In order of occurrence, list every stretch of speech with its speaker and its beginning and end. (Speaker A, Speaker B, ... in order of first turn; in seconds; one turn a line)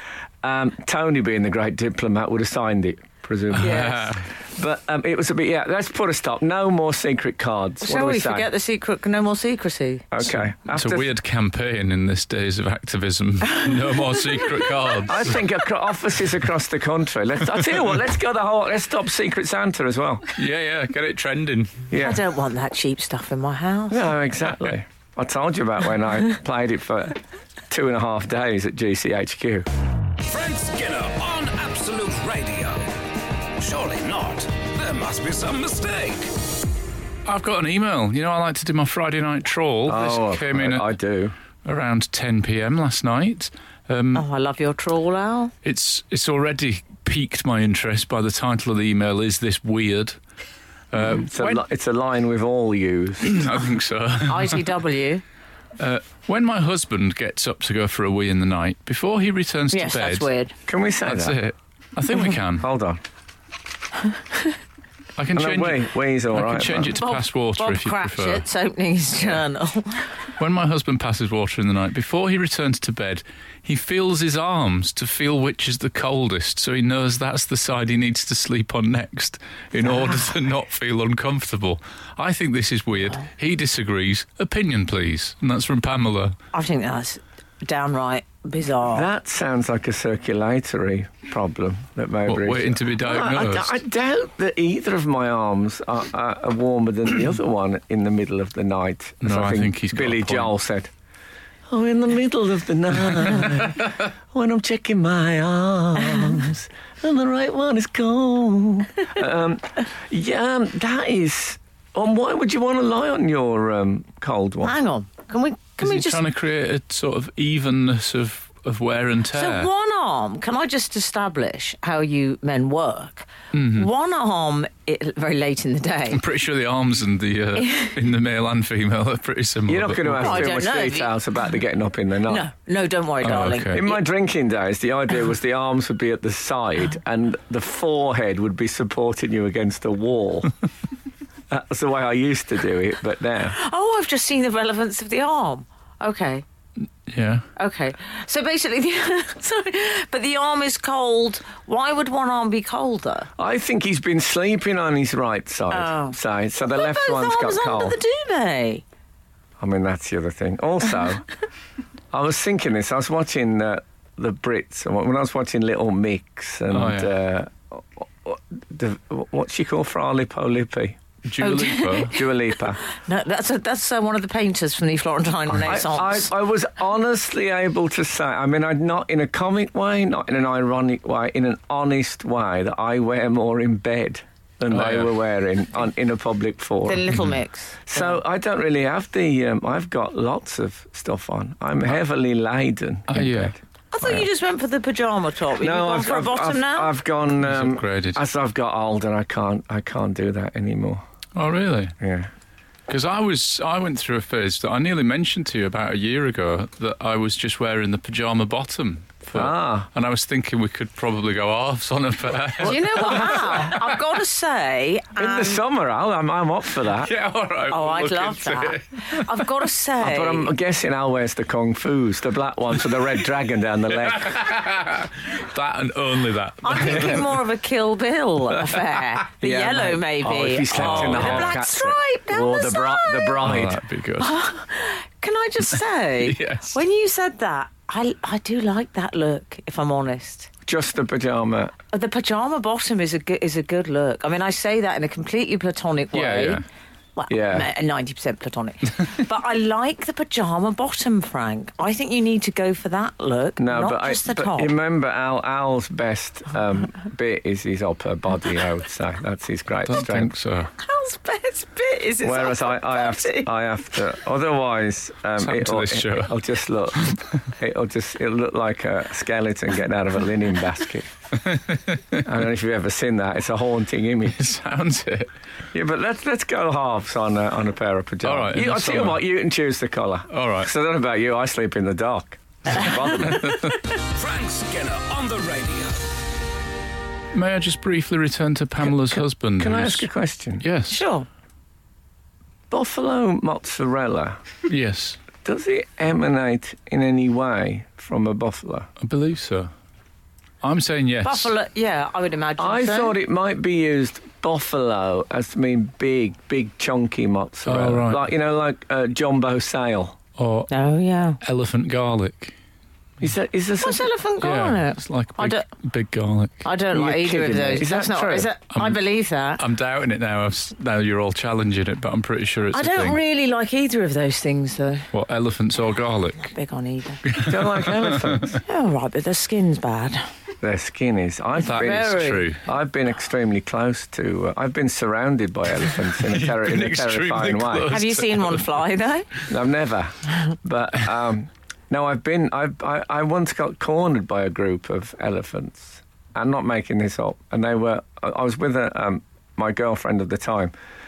Speaker A: 0.4-8.5
Speaker B: 3.5-4.3
Speaker C: 3.6-4.1
Speaker C: 7.8-10.1
Speaker A: 10.1-11.1
Speaker B: 10.2-15.4
Speaker C: 13.5-14.6
Speaker A: 15.1-20.3
Speaker B: 20.3-21.9
Speaker A: 21.9-22.2
Speaker C: 21.9-24.1
Speaker A: 23.9-27.2
Speaker A: 27.7-29.6
Speaker D: 30.2-32.9
Speaker D: 33.6-36.4
Speaker B: 37.2-40.9
Speaker A: 39.9-41.4
Speaker B: 41.6-44.2
Speaker C: 44.1-45.5
Speaker B: 45.6-50.1
Speaker B: 50.9-51.6
Speaker A: 51.0-53.5
Speaker B: 53.2-54.6
Speaker C: 54.3-55.2
Speaker B: 55.8-60.3
Speaker C: 59.7-60.5
Speaker A: 60.7-61.4
Speaker B: 61.0-62.7
Speaker A: 62.6-63.0
Speaker B: 65.2-68.4
Speaker A: 65.3-67.0
Speaker C: 66.9-70.1
Speaker B: 70.4-86.3
Speaker C: 86.5-89.1
Speaker A: 88.9-100.9
Speaker B: 92.3-93.8
Speaker B: 99.2-100.5
Speaker A: 101.7-114.8
Speaker C: 114.6-116.2
Speaker B: 115.8-119.7
Speaker C: 119.3-126.2
Speaker B: 123.5-123.9
Speaker B: 126.1-130.5
Speaker C: 127.5-127.9
Speaker A: 129.7-132.5
Speaker C: 130.1-131.2
Speaker C: 132.3-134.0
Speaker B: 133.2-133.8
Speaker A: 133.7-140.5
Speaker A: 141.5-143.6
Speaker C: 143.5-146.4
Speaker B: 147.1-147.4
Speaker C: 147.6-153.3
Speaker A: 153.4-158.0
Speaker C: 155.7-158.8
Speaker A: 159.6-161.2
Speaker A: 162.1-171.0
Speaker B: 166.7-167.1
Speaker B: 171.2-172.1
Speaker C: 171.4-172.3
Speaker A: 172.1-172.8
Speaker C: 172.8-176.3
Speaker A: 175.5-187.1
Speaker B: 184.7-185.1
Speaker C: 186.8-188.2
Speaker A: 187.9-194.2
Speaker B: 193.1-193.5
Speaker C: 193.9-196.9
Speaker A: 195.6-201.0
Speaker B: 197.4-198.2
Speaker B: 201.3-201.9
Speaker A: 202.0-202.3
Speaker B: 202.9-213.9
Speaker A: 209.3-209.9
Speaker A: 212.6-213.7
Speaker C: 212.6-215.6
Speaker A: 215.2-217.1
Speaker B: 217.0-219.4
Speaker C: 217.7-220.5
Speaker A: 220.0-224.4
Speaker B: 224.0-227.4
Speaker C: 226.6-233.4
Speaker B: 228.6-229.0
Speaker A: 229.4-233.8
Speaker B: 230.7-231.6
Speaker B: 233.4-234.3
Speaker C: 234.2-240.5
Speaker B: 236.2-236.8
Speaker A: 240.7-241.7
Speaker C: 241.9-246.6
Speaker B: 246.1-246.6
Speaker C: 247.2-254.7
Speaker A: 247.3-247.7
Speaker A: 253.6-260.3
Speaker B: 259.8-260.7
Speaker C: 260.8-263.5
Speaker A: 262.2-271.1
Speaker B: 265.4-266.4
Speaker B: 271.4-272.2
Speaker A: 272.2-274.4
Speaker B: 274.3-275.3
Speaker A: 275.7-283.6
Speaker B: 278.2-279.2
Speaker B: 280.3-280.7
Speaker B: 283.2-283.8
Speaker D: 283.9-286.1
Speaker B: 287.3-290.1
Speaker A: 288.8-290.6
Speaker B: 290.6-291.0
Speaker C: 290.9-291.3
Speaker A: 292.7-294.4
Speaker B: 294.7-295.2
Speaker A: 295.4-298.9
Speaker B: 299.0-299.7
Speaker B: 300.6-301.5
Speaker C: 301.2-303.2
Speaker A: 302.6-310.2
Speaker B: 307.6-308.2
Speaker B: 310.4-310.7
Speaker C: 310.7-311.4
Speaker B: 311.4-312.6
Speaker A: 313.2-314.1
Speaker C: 313.8-315.6
Speaker B: 314.4-316.6
Speaker C: 316.6-319.6
Speaker A: 316.9-318.5
Speaker B: 318.7-319.0
Speaker B: 319.6-323.2
Speaker C: 322.7-325.1
Speaker B: 325.1-326.4
Speaker C: 326.4-327.2
Speaker B: 327.2-328.6
Speaker A: 327.4-328.6
Speaker C: 328.5-330.3
Speaker A: 330.6-338.0
Speaker B: 331.6-332.6
Speaker C: 331.6-332.5
Speaker B: 336.2-338.7
Speaker C: 337.9-339.3
Speaker A: 339.5-350.7